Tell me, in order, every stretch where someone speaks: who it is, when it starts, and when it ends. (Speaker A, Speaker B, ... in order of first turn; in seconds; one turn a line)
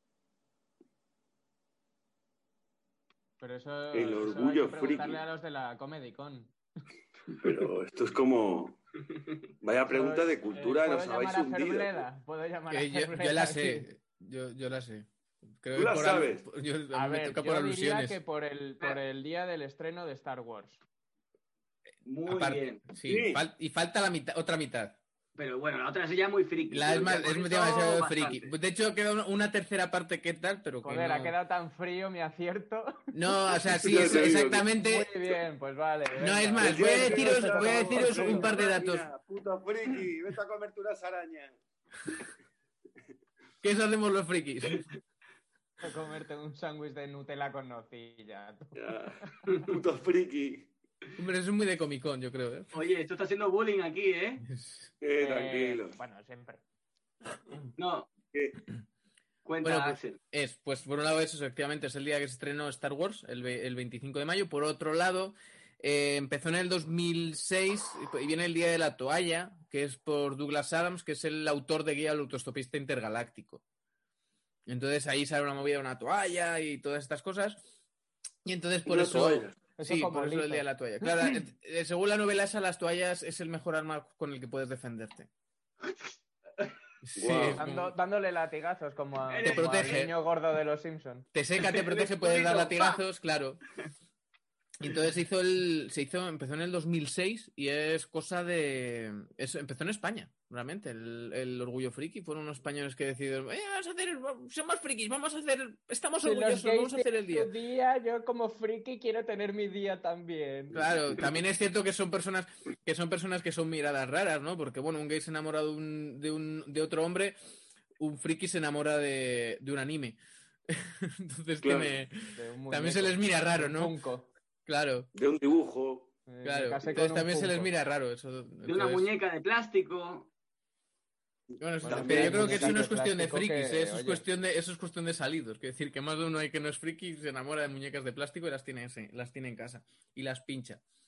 Speaker A: 3.4-6.5
Speaker B: 3.9-5.2
Speaker B: 7.4-8.8
Speaker B: 9.6-12.0
Speaker A: 9.8-13.9
Speaker C: 12.7-15.1
Speaker C: 15.6-18.2
Speaker B: 15.7-16.4
Speaker A: 16.9-20.8
Speaker D: 22.0-22.9
Speaker C: 22.2-25.0
Speaker B: 23.0-23.4
Speaker D: 25.4-28.5
Speaker C: 26.7-31.3
Speaker A: 30.8-33.1
Speaker C: 33.1-35.1
Speaker B: 33.8-34.6
Speaker A: 34.7-38.6
Speaker C: 36.2-39.1
Speaker B: 36.6-41.6
Speaker C: 43.6-44.9
Speaker A: 45.8-48.8
Speaker B: 48.7-50.7
Speaker C: 51.2-52.7
Speaker D: 52.7-54.4
Speaker C: 54.5-54.9
Speaker B: 55.0-56.0
Speaker A: 55.2-56.6
Speaker D: 57.8-58.1
Speaker B: 58.3-58.6
Speaker D: 59.4-60.2
Speaker C: 59.6-73.6
Speaker C: 74.7-77.7
Speaker C: 78.4-85.3
Speaker B: 78.8-79.6
Speaker A: 79.8-81.0
Speaker D: 85.9-86.7
Speaker C: 87.0-87.9
Speaker B: 87.2-87.6
Speaker A: 87.5-91.2
Speaker D: 89.3-90.1
Speaker C: 89.4-90.1
Speaker C: 91.3-93.6
Speaker D: 91.6-93.0
Speaker C: 94.8-107.5
Speaker A: 106.2-111.2
Speaker C: 110.7-117.4
Speaker C: 118.0-120.2
Speaker C: 120.7-123.9
Speaker B: 121.6-122.0
Speaker A: 122.3-124.3
Speaker C: 124.7-125.1
Speaker B: 125.1-126.1
Speaker A: 126.3-127.7
Speaker C: 126.4-129.1
Speaker D: 128.6-130.3
Speaker C: 131.6-140.8
Speaker B: 131.8-132.8
Speaker A: 131.8-134.2